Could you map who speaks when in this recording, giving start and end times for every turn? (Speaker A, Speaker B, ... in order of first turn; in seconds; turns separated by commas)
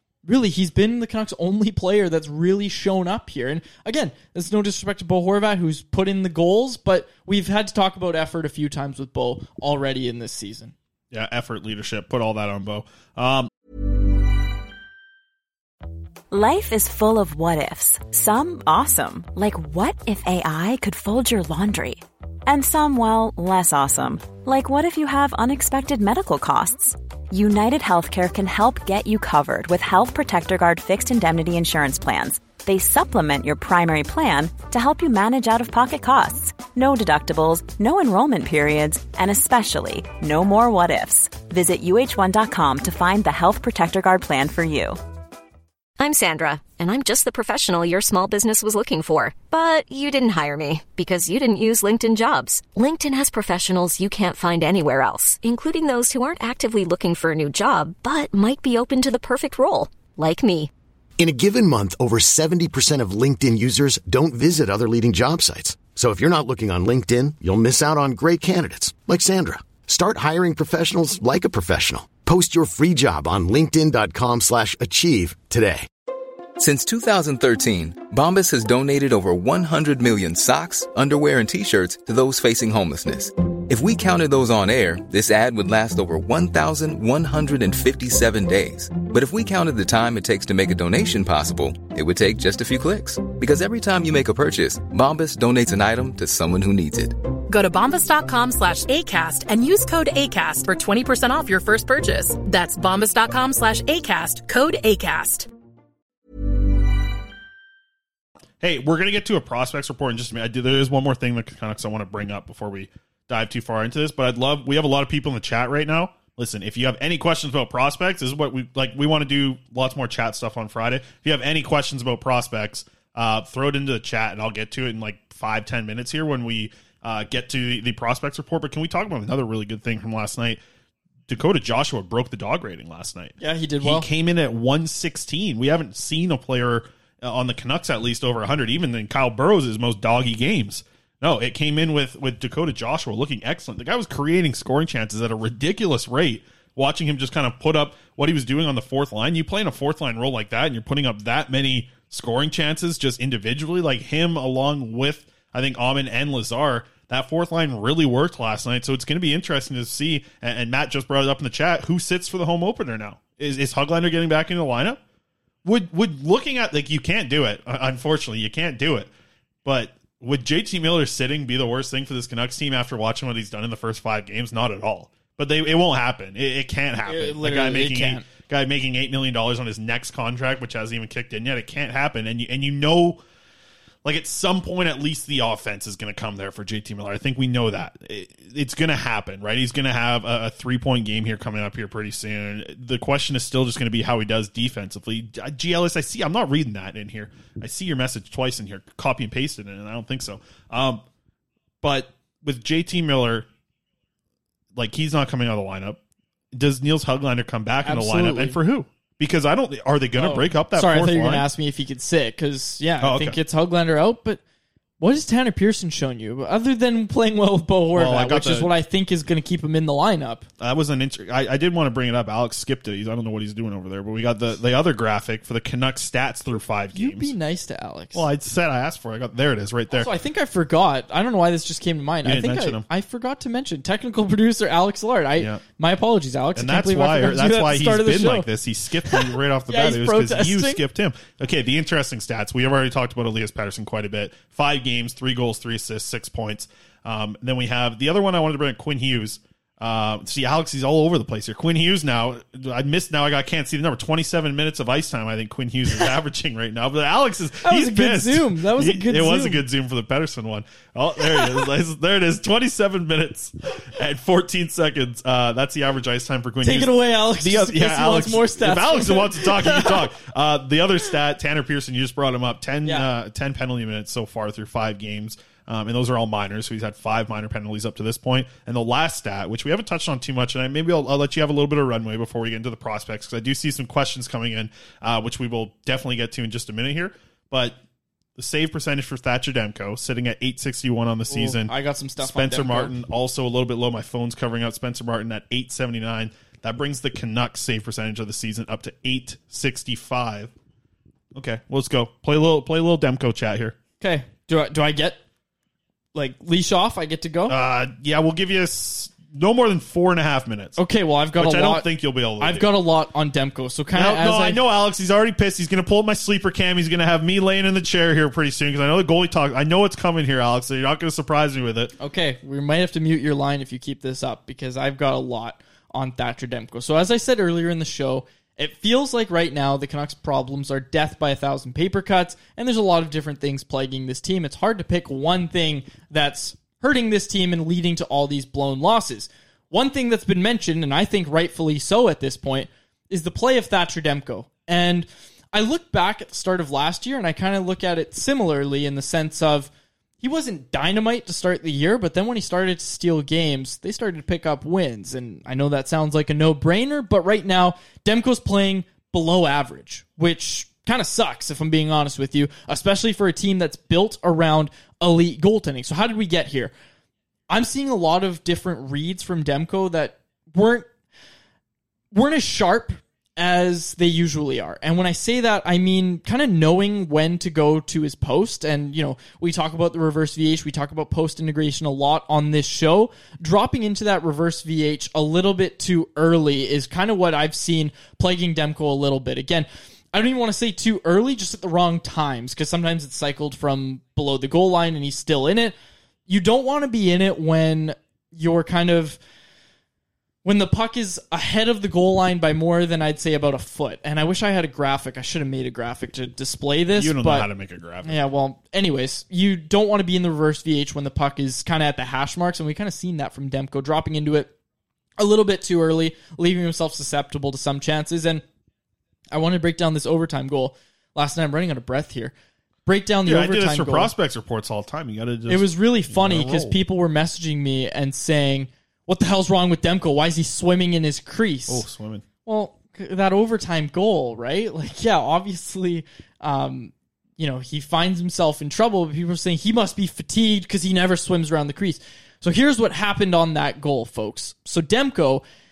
Speaker A: 0.2-10.7, Speaker B: 11.1-13.5, Speaker C: 16.3-45.0, Speaker D: 46.0-60.7, Speaker E: 61.2-75.9, Speaker F: 76.6-97.2, Speaker G: 97.5-105.5, Speaker B: 108.6-130.6, Speaker B: 131.3-165.0, Speaker A: 133.4-134.1, Speaker B: 165.6-169.1, Speaker B: 169.6-183.2, Speaker A: 177.1-178.3, Speaker B: 184.0-201.0, Speaker B: 201.8-203.5, Speaker B: 204.7-206.0, Speaker B: 206.5-211.5, Speaker A: 207.8-208.6, Speaker A: 210.2-214.4, Speaker B: 213.0-213.4, Speaker A: 215.0-220.4, Speaker B: 217.9-218.7, Speaker B: 220.6-227.3, Speaker A: 226.9-228.3, Speaker B: 228.1-230.1, Speaker A: 229.9-238.5, Speaker B: 232.2-232.8, Speaker B: 236.5-287.8, Speaker A: 239.1-240.8, Speaker A: 257.6-259.6, Speaker A: 261.3-261.6, Speaker A: 266.6-270.1, Speaker B: 288.4-300.5, Speaker A: 291.3-292.9, Speaker B: 301.3-303.8, Speaker A: 304.0-305.2, Speaker A: 306.1-307.6, Speaker B: 307.5-310.8, Speaker A: 310.8-311.9, Speaker B: 311.4-312.7, Speaker A: 312.4-314.6, Speaker B: 313.9-321.9, Speaker A: 322.0-349.7, Speaker A: 350.2-366.7, Speaker A: 367.5-370.9, Speaker A: 372.1-395.7, Speaker A: 396.3-399.2, Speaker A: 400.4-407.5, Speaker B: 406.9-408.2, Speaker A: 408.0-414.5, Speaker A: 415.2-418.4, Speaker A: 419.3-422.3, Speaker A: 422.9-424.1, Speaker B: 423.2-426.8, Speaker A: 425.5-431.9, Speaker B: 431.7-432.2, Speaker A: 432.4-445.4